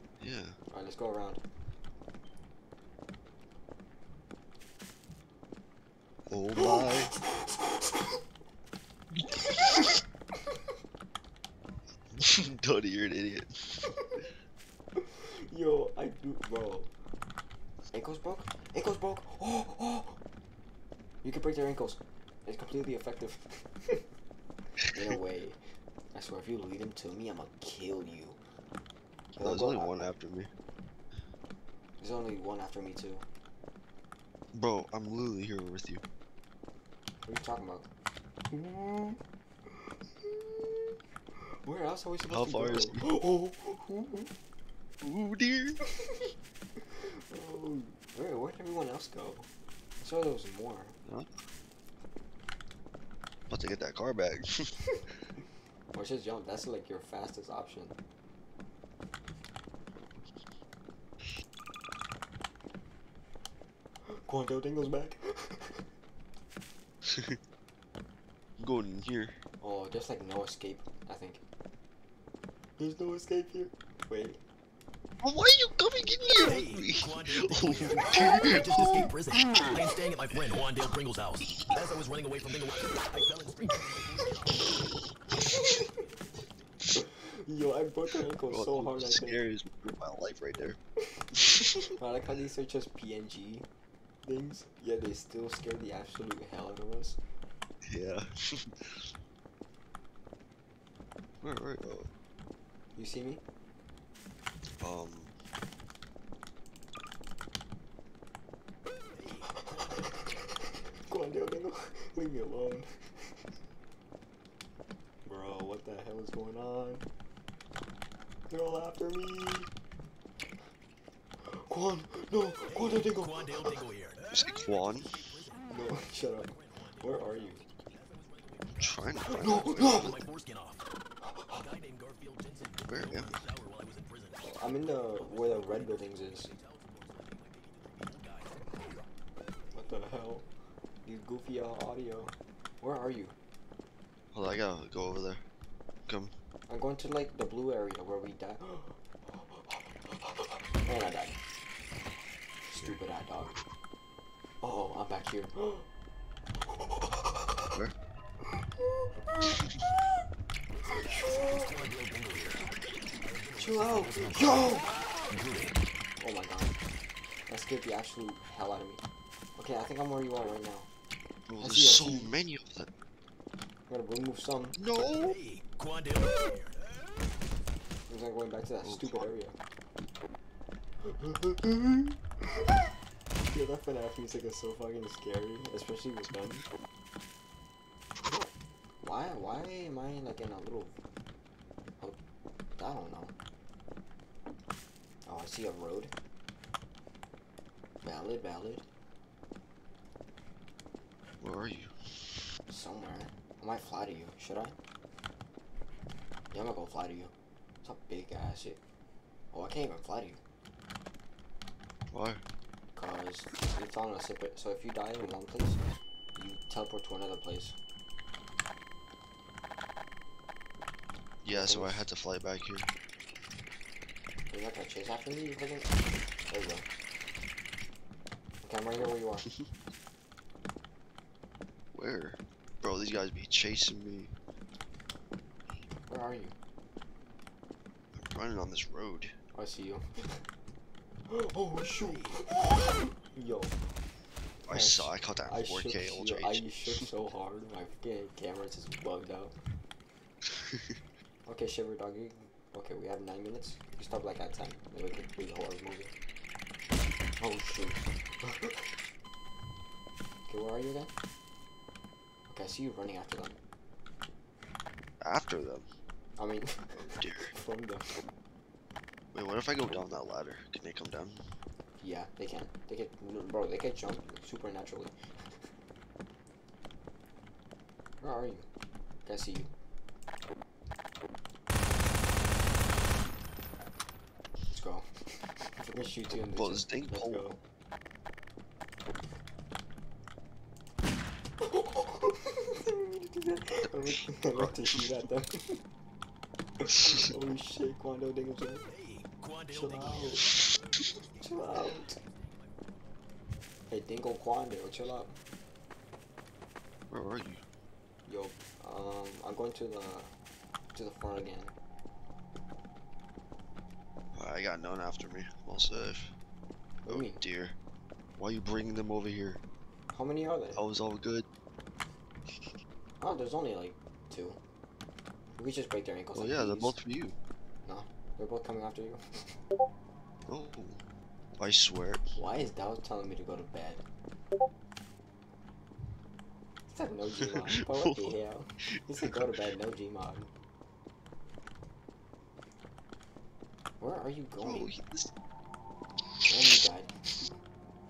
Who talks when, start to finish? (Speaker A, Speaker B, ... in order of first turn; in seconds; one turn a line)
Speaker A: 0.2-0.6
Speaker B: 0.7-1.4
Speaker A: 6.3-7.1
Speaker B: 6.5-8.2
Speaker A: 12.1-13.9
Speaker B: 15.0-16.9
Speaker B: 17.9-20.2
Speaker B: 21.2-24.0
Speaker B: 24.9-25.6
Speaker B: 26.1-28.4
Speaker A: 29.4-30.5
Speaker B: 29.4-30.1
Speaker B: 32.0-33.2
Speaker A: 34.5-36.0
Speaker B: 37.2-37.9
Speaker B: 38.5-39.2
Speaker B: 40.2-41.0
Speaker B: 41.6-44.3
Speaker A: 42.3-43.0
Speaker A: 45.0-45.8
Speaker B: 45.8-46.3
Speaker B: 47.0-49.5
Speaker B: 50.0-51.0
Speaker A: 53.5-54.7
Speaker B: 55.9-58.0
Speaker B: 64.1-65.9
Speaker A: 67.0-67.4
Speaker A: 68.6-69.4
Speaker B: 69.6-71.4
Speaker B: 72.8-74.4
Speaker A: 75.2-78.8
Speaker C: 76.3-84.8
Speaker B: 78.3-78.6
Speaker B: 84.2-84.6
Speaker B: 85.4-86.0
Speaker B: 86.9-89.4
Speaker A: 88.5-90.8
Speaker A: 91.4-91.8
Speaker B: 91.9-93.7
Speaker B: 94.2-97.2
Speaker A: 97.9-99.1
Speaker A: 101.4-102.1
Speaker B: 103.0-103.4
Speaker A: 104.8-105.3
Speaker C: 109.2-110.1
Speaker B: 109.4-113.4
Speaker B: 115.2-117.0
Speaker B: 118.5-119.7
Speaker B: 121.4-123.9
Speaker C: 122.7-130.9
Speaker A: 124.3-125.2
Speaker B: 125.7-127.6
Speaker A: 128.7-130.2
Speaker B: 129.3-130.2
Speaker B: 131.2-131.6
Speaker C: 131.5-139.0
Speaker A: 132.8-133.4
Speaker B: 134.4-136.5
Speaker B: 139.7-140.4
Speaker B: 141.0-143.3
Speaker A: 144.3-145.4
Speaker A: 146.1-146.3
Speaker B: 146.7-151.4
Speaker B: 152.6-153.6
Speaker B: 154.6-155.9
Speaker B: 156.7-157.6
Speaker B: 158.8-159.7
Speaker B: 160.8-161.8
Speaker C: 161.1-162.7
Speaker C: 163.2-165.8
Speaker B: 163.5-165.0
Speaker B: 166.2-166.8
Speaker B: 167.5-169.0
Speaker B: 169.6-170.9
Speaker A: 171.5-172.9
Speaker B: 171.6-172.3
Speaker B: 173.9-174.8
Speaker A: 174.8-175.4
Speaker C: 175.2-176.8
Speaker B: 178.1-179.5
Speaker A: 178.8-179.3
Speaker B: 181.0-182.9
Speaker B: 183.4-186.6
Speaker B: 189.0-191.0
Speaker B: 192.7-193.3
Speaker B: 195.2-196.1
Speaker B: 198.0-198.8
Speaker A: 201.4-202.4
Speaker B: 202.7-204.8
Speaker B: 206.5-207.3
Speaker B: 207.8-208.8
Speaker B: 209.5-210.4
Speaker A: 212.1-212.4
Speaker B: 212.9-215.8
Speaker B: 216.3-217.8
Speaker A: 221.4-222.9
Speaker B: 221.5-222.1
Speaker B: 224.5-226.9
Speaker B: 228.6-229.5
Speaker A: 231.9-234.3
Speaker B: 236.1-236.5
Speaker A: 238.2-239.3
Speaker B: 239.5-240.4
Speaker B: 241.3-243.8
Speaker A: 244.6-247.0
Speaker B: 244.7-249.6
Speaker A: 250.4-251.0
Speaker B: 251.4-256.1
Speaker B: 257.4-258.9
Speaker B: 260.5-261.1
Speaker B: 262.5-263.6
Speaker A: 265.2-265.9
Speaker B: 266.4-268.2
Speaker A: 267.2-267.5
Speaker A: 269.3-271.4
Speaker B: 272.0-275.1
Speaker B: 278.2-278.6
Speaker B: 279.2-279.7
Speaker B: 284.7-287.6
Speaker A: 286.5-287.4
Speaker B: 291.6-295.8
Speaker A: 293.8-295.2
Speaker B: 296.8-298.8
Speaker C: 298.9-302.3
Speaker B: 299.7-300.5
Speaker B: 301.4-302.2
Speaker B: 303.9-305.4
Speaker A: 307.1-307.6
Speaker B: 308.2-310.3
Speaker B: 310.9-311.7
Speaker A: 314.3-316.3
Speaker B: 317.1-317.4
Speaker A: 317.1-317.7
Speaker A: 318.4-319.6
Speaker B: 320.1-320.8
Speaker A: 320.7-321.5
Speaker B: 323.2-324.6
Speaker B: 325.6-327.0
Speaker A: 326.3-327.4
Speaker B: 327.8-329.6
Speaker A: 330.4-331.0
Speaker A: 331.6-332.4
Speaker B: 332.3-334.0
Speaker B: 336.9-340.5
Speaker A: 337.7-338.4
Speaker B: 344.0-344.9
Speaker A: 344.6-345.3
Speaker B: 346.4-347.1